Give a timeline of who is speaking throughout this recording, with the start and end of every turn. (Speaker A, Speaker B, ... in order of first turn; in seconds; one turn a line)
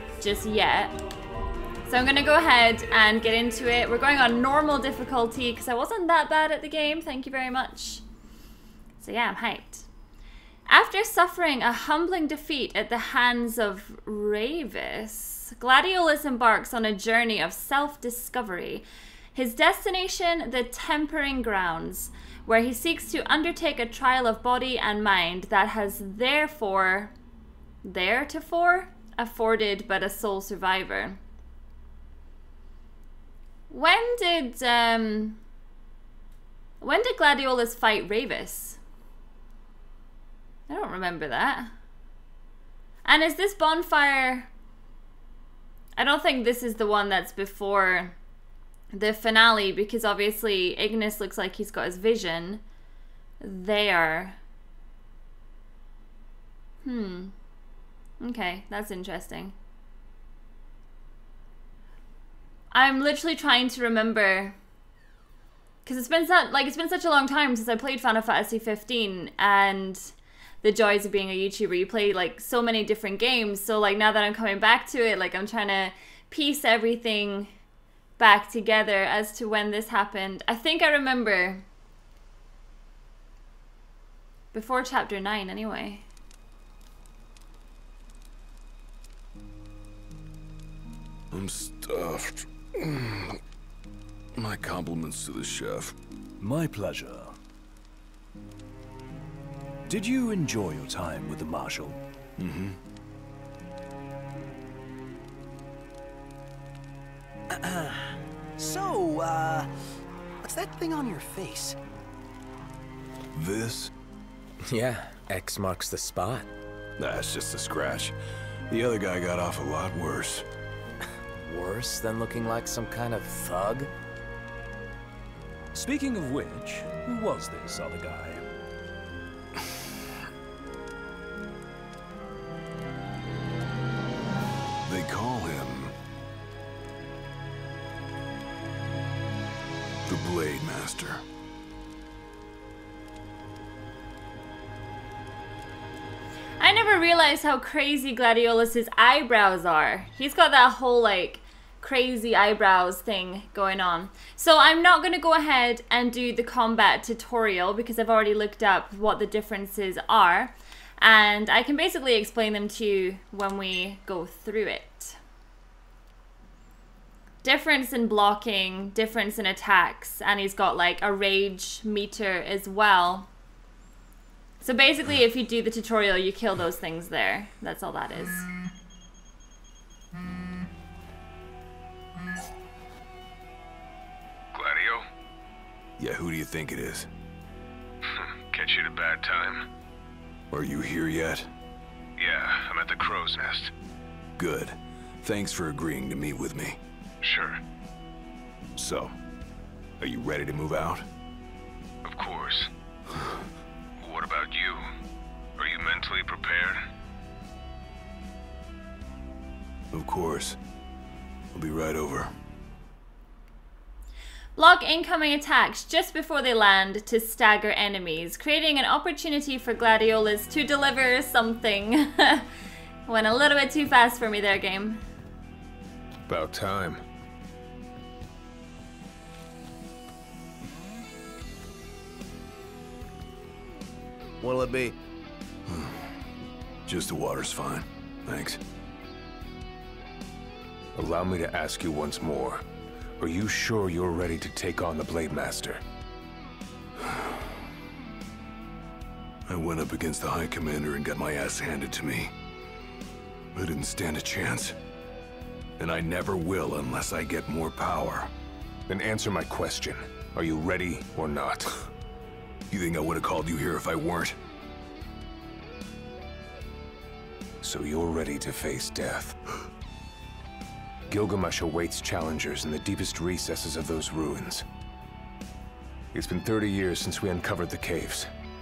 Speaker A: 0.2-0.9
Speaker A: 1.9-8.0
Speaker A: 9.0-9.8
Speaker A: 10.7-27.1
Speaker A: 27.8-31.2
Speaker A: 33.7-35.4
Speaker A: 36.8-38.8
Speaker A: 40.7-41.7
Speaker A: 43.0-44.5
Speaker A: 46.0-48.1
Speaker A: 48.9-52.6
Speaker A: 53.4-54.4
Speaker A: 56.8-57.3
Speaker A: 58.2-59.5
Speaker A: 62.7-64.5
Speaker A: 65.8-77.5
Speaker A: 78.2-81.6
Speaker A: 84.5-86.0
Speaker B: 91.3-93.4
Speaker B: 94.3-95.9
Speaker C: 96.4-97.3
Speaker C: 99.8-102.0
Speaker B: 102.4-102.8
Speaker D: 107.6-107.9
Speaker D: 108.6-109.7
Speaker D: 110.4-111.8
Speaker B: 113.3-113.9
Speaker E: 114.6-116.5
Speaker B: 117.0-118.1
Speaker B: 118.7-120.4
Speaker E: 121.4-123.9
Speaker C: 125.7-128.4
Speaker B: 134.8-135.9
Speaker B: 140.0-141.2
Speaker A: 146.6-165.2
Speaker A: 167.4-173.3
Speaker A: 174.6-178.4
Speaker F: 184.5-185.0
Speaker B: 186.0-187.1
Speaker F: 188.1-189.6
Speaker B: 190.5-191.5
Speaker F: 192.2-193.7
Speaker B: 194.4-196.8
Speaker F: 197.2-197.6
Speaker B: 198.8-199.1
Speaker B: 200.0-201.1
Speaker F: 202.0-202.7
Speaker F: 204.0-204.8
Speaker F: 205.6-206.8
Speaker B: 209.9-210.6
Speaker B: 211.5-212.3
Speaker A: 214.6-222.4
Speaker A: 223.1-225.0
Speaker F: 226.3-227.0
Speaker D: 234.4-234.9
Speaker B: 235.7-235.9
Speaker B: 236.8-238.6
Speaker F: 240.9-242.6
Speaker F: 243.2-245.8
Speaker B: 247.0-247.4
Speaker B: 249.5-252.3
Speaker B: 253.5-254.7
Speaker B: 255.8-258.3
Speaker F: 258.9-261.9
Speaker B: 262.7-264.4
Speaker F: 267.6-269.4
Speaker F: 271.1-274.6
Speaker F: 276.1-278.3